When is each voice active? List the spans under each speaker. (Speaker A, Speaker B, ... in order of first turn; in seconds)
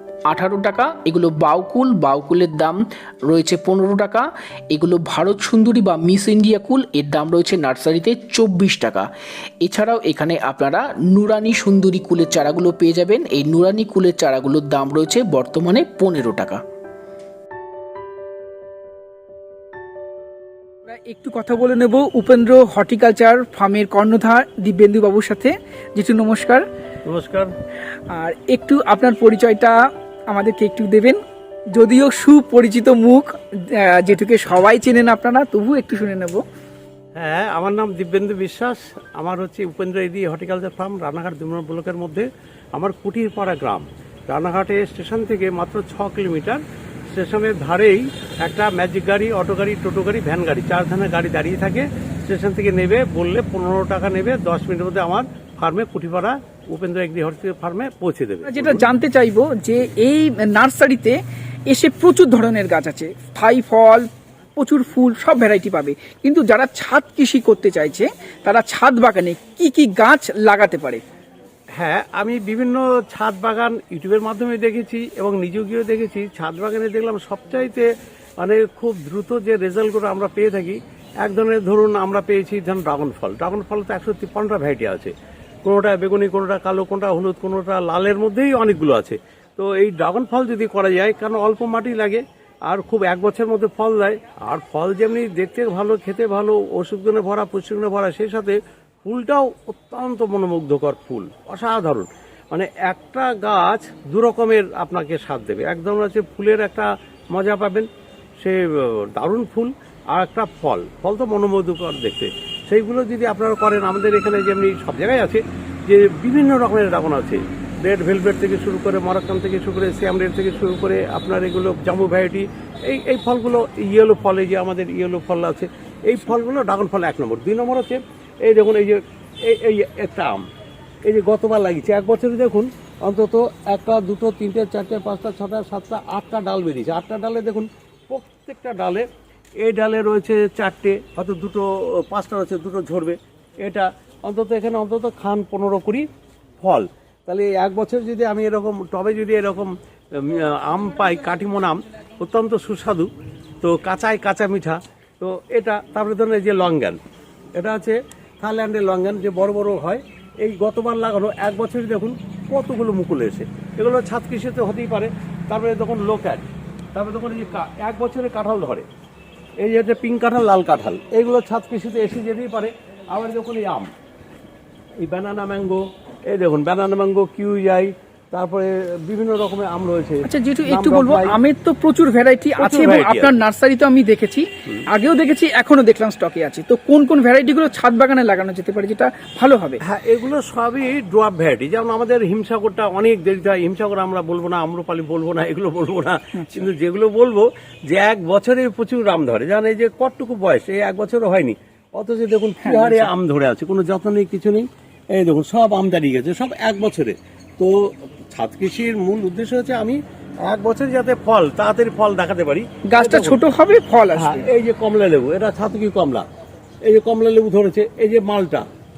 Speaker A: 0.3-9.1, 9.6-16.6
Speaker B: 20.9-26.6, 28.1-29.7, 30.3-31.2, 31.7-36.4, 58.4-61.2, 61.7-71.0, 180.2-189.8, 196.3-196.7, 202.6-203.1, 212.9-214.4
Speaker C: 27.0-27.5, 37.1-46.6, 47.1-58.9, 71.8-77.9, 78.4-85.1, 85.6-107.9, 108.4-130.4, 131.0-139.1, 139.6-146.1, 146.6-153.1, 153.6-157.0, 157.5-168.8, 169.6-173.9, 175.0-181.4, 182.6-183.3, 189.9-213.4, 214.2-216.2, 216.8-218.7